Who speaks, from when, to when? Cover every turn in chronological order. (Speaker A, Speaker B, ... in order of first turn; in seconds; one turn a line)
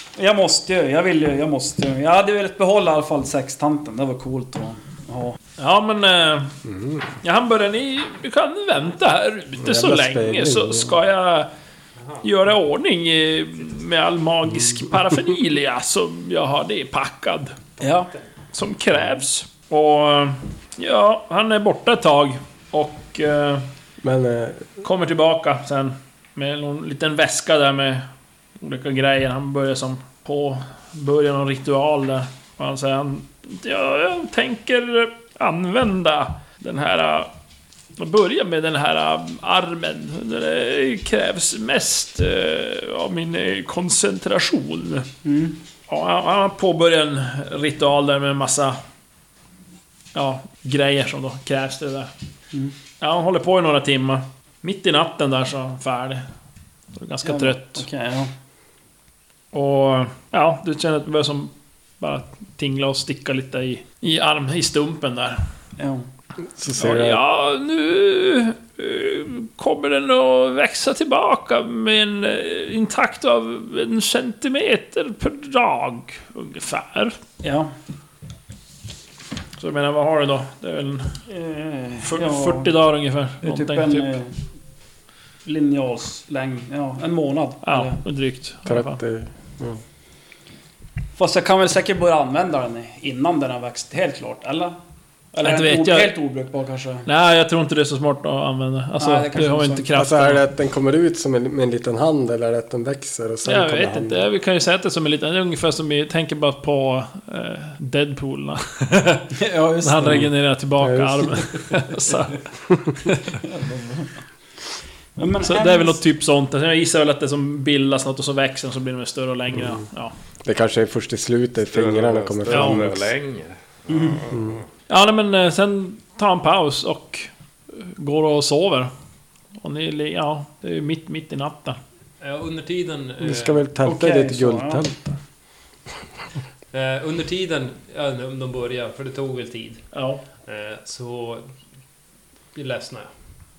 Speaker A: 0.2-5.4
Speaker B: 5.6-6.5
Speaker C: 6.7-7.0
Speaker B: 7.2-11.5
Speaker C: 9.6-11.0
Speaker B: 12.2-17.6
Speaker A: 17.8-18.1
Speaker B: 18.5-23.7
Speaker C: 24.0-24.7
Speaker B: 24.8-28.1
Speaker B: 28.6-37.3
Speaker B: 38.0-45.1
Speaker A: 45.2-45.6
Speaker B: 45.9-48.8
Speaker B: 50.1-52.1
Speaker B: 53.0-56.2
Speaker B: 57.0-57.9
Speaker A: 57.2-58.3
Speaker B: 59.5-65.4
Speaker A: 65.8-66.1
Speaker C: 66.6-67.2
Speaker B: 66.7-77.2
Speaker A: 77.4-77.7
Speaker B: 79.6-81.1
Speaker A: 81.3-82.7
Speaker B: 82.0-84.2
Speaker A: 83.4-84.3
Speaker A: 85.5-88.0
Speaker B: 87.6-89.0
Speaker C: 88.7-89.8
Speaker A: 91.2-94.8
Speaker A: 95.3-97.1
Speaker B: 95.4-96.1
Speaker B: 97.1-100.4
Speaker A: 99.0-100.0
Speaker C: 100.0-104.3
Speaker B: 103.5-113.4
Speaker A: 109.3-110.3
Speaker C: 110.8-111.4
Speaker A: 113.4-114.2
Speaker A: 115.2-116.0
Speaker B: 115.4-120.1
Speaker C: 120.4-123.1
Speaker D: 121.7-124.7
Speaker B: 122.5-122.8
Speaker A: 123.9-124.2
Speaker C: 124.3-124.6
Speaker B: 124.9-128.9
Speaker B: 129.6-131.8
Speaker E: 132.2-133.6
Speaker C: 133.2-135.2
Speaker A: 133.8-134.8
Speaker E: 136.7-139.9
Speaker B: 139.9-140.2
Speaker E: 140.4-141.5
Speaker E: 142.6-143.1